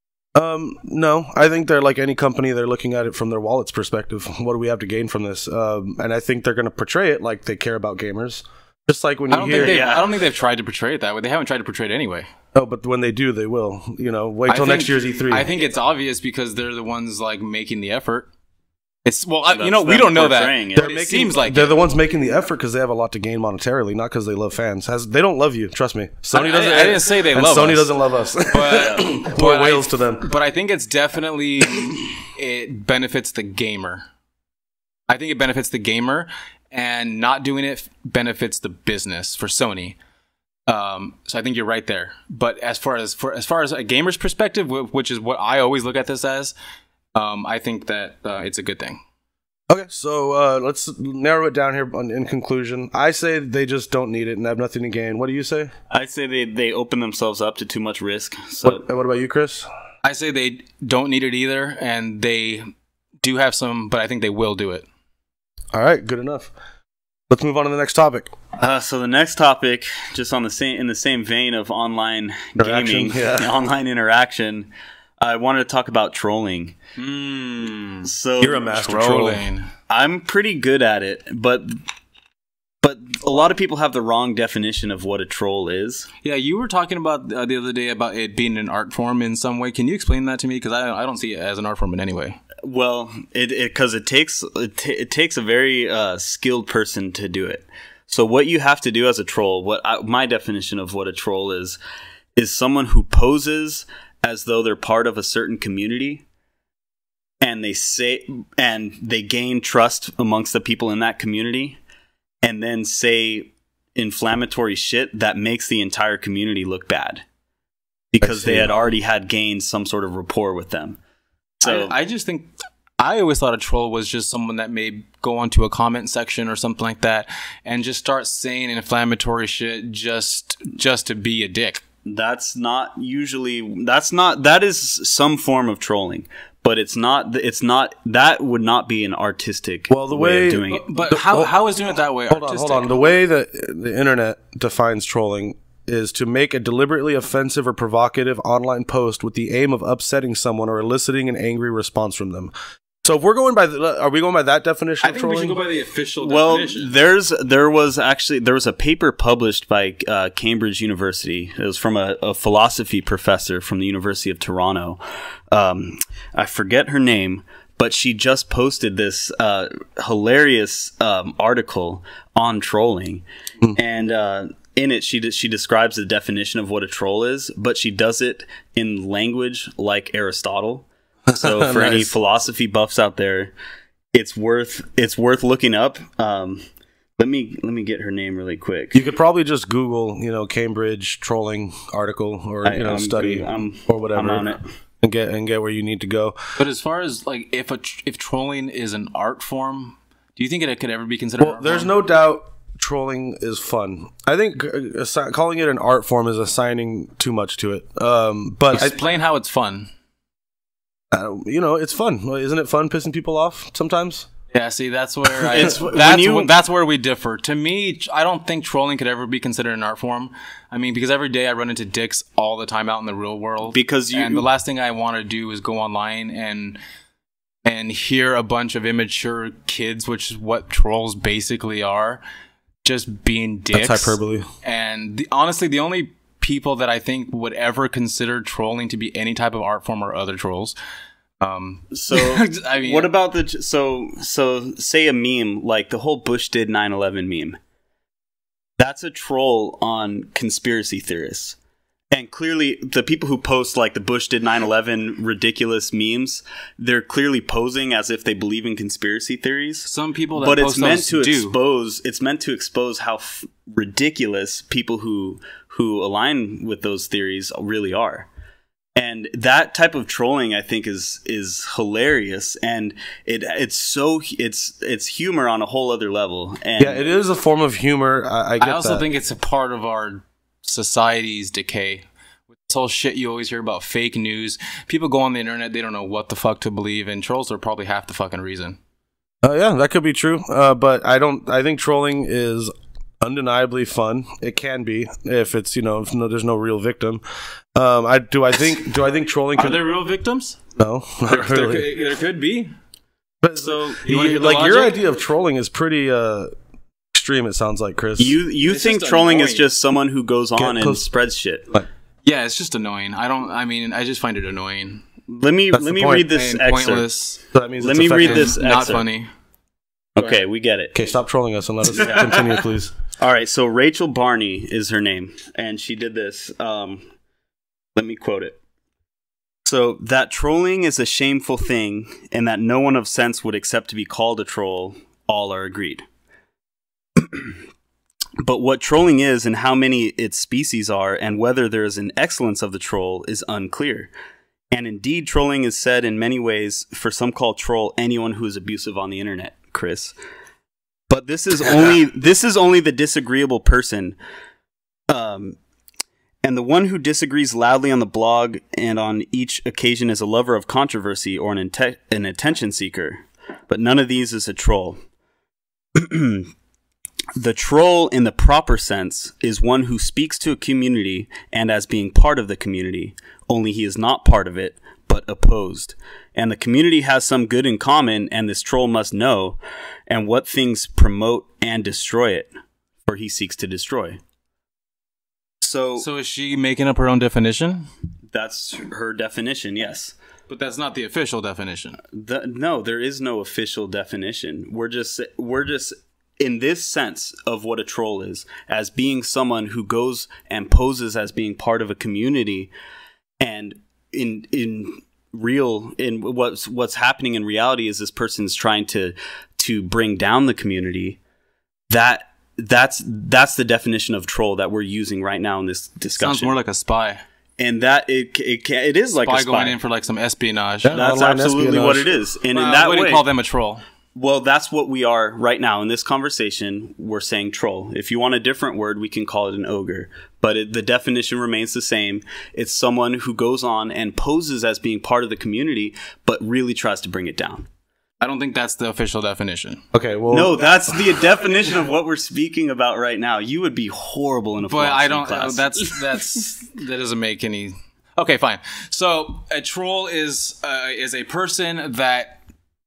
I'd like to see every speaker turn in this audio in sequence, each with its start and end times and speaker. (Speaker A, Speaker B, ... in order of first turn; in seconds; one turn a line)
Speaker A: 0.3-9.8
Speaker B: 9.3-12.3
Speaker C: 9.5-10.1
Speaker A: 12.5-15.4
Speaker B: 14.5-18.3
Speaker B: 19.0-21.8
Speaker C: 19.5-20.9
Speaker A: 20.7-30.2
Speaker B: 26.3-27.9
Speaker B: 28.5-34.0
Speaker C: 28.7-29.1
Speaker B: 35.1-40.0
Speaker B: 40.7-46.5
Speaker B: 47.1-49.0
Speaker A: 49.7-55.7
Speaker C: 55.9-58.8
Speaker A: 58.6-59.7
Speaker B: 60.0-62.6
Speaker B: 63.2-64.8
Speaker A: 65.7-66.5
Speaker A: 67.3-68.3
Speaker C: 68.6-76.8
Speaker A: 72.6-73.5
Speaker B: 77.0-78.1
Speaker C: 78.0-78.7
Speaker A: 78.4-79.4
Speaker B: 78.7-79.7
Speaker C: 79.9-81.8
Speaker C: 82.8-86.1
Speaker B: 86.2-92.4
Speaker C: 92.6-101.8
Speaker C: 102.3-106.2
Speaker C: 107.4-111.8
Speaker C: 112.4-117.2
Speaker C: 118.1-121.0
Speaker A: 118.2-118.7
Speaker C: 121.6-121.9
Speaker B: 121.6-131.8
Speaker C: 132.0-140.9
Speaker A: 139.9-141.5
Speaker B: 140.7-142.9
Speaker A: 142.3-152.5
Speaker A: 153.0-155.6
Speaker B: 155.0-156.9
Speaker C: 156.2-173.2
Speaker C: 173.7-183.5
Speaker A: 181.3-182.1
Speaker C: 184.1-186.7
Speaker C: 187.2-189.0
Speaker A: 188.9-196.3
Speaker C: 192.6-194.6
Speaker B: 196.6-201.9
Speaker A: 201.4-209.0
Speaker B: 208.7-209.9
Speaker A: 211.1-214.3
Speaker B: 214.5-226.8
Speaker C: 215.5-216.5
Speaker C: 223.7-224.4
Speaker B: 227.6-232.2
Speaker B: 232.8-240.8
Speaker A: 233.7-234.5
Speaker B: 241.4-243.1
Speaker C: 241.9-247.6
Speaker C: 248.8-251.6
Speaker C: 252.1-268.3
Speaker B: 259.9-261.6
Speaker C: 268.9-277.0
Speaker A: 276.8-279.0
Speaker B: 278.6-288.8
Speaker A: 289.4-297.2
Speaker A: 297.7-299.8
Speaker B: 299.6-300.6
Speaker A: 300.8-301.9
Speaker B: 301.3-302.7
Speaker A: 303.4-306.5
Speaker C: 303.6-304.0
Speaker B: 304.0-305.0
Speaker A: 307.1-308.4
Speaker C: 308.2-311.7
Speaker B: 308.6-309.6
Speaker A: 310.6-311.0
Speaker B: 312.2-315.0
Speaker C: 315.3-317.1
Speaker A: 315.7-316.3
Speaker B: 316.3-317.4
Speaker A: 317.5-318.5
Speaker C: 317.8-319.0
Speaker B: 318.1-319.3
Speaker C: 320.1-320.9
Speaker A: 320.9-322.9
Speaker B: 321.9-322.6
Speaker C: 323.2-327.1
Speaker C: 327.9-328.6
Speaker C: 329.6-336.0
Speaker C: 337.2-337.6
Speaker C: 338.4-344.1
Speaker C: 344.7-350.1
Speaker C: 351.1-354.2
Speaker C: 355.1-355.6
Speaker C: 356.4-365.0
Speaker C: 365.9-366.5
Speaker C: 367.4-382.5
Speaker C: 383.1-384.2
Speaker C: 385.6-386.1
Speaker B: 386.0-387.9
Speaker C: 388.3-390.1
Speaker B: 390.5-392.0
Speaker C: 392.1-402.7
Speaker C: 403.4-411.2
Speaker C: 411.9-416.5
Speaker B: 416.2-417.2
Speaker C: 417.6-419.8
Speaker B: 419.2-421.0
Speaker A: 420.8-422.1
Speaker C: 420.9-423.2
Speaker B: 422.5-423.8
Speaker C: 424.1-437.7
Speaker B: 438.2-439.8
Speaker A: 439.9-441.1
Speaker C: 440.3-446.0
Speaker B: 444.7-452.4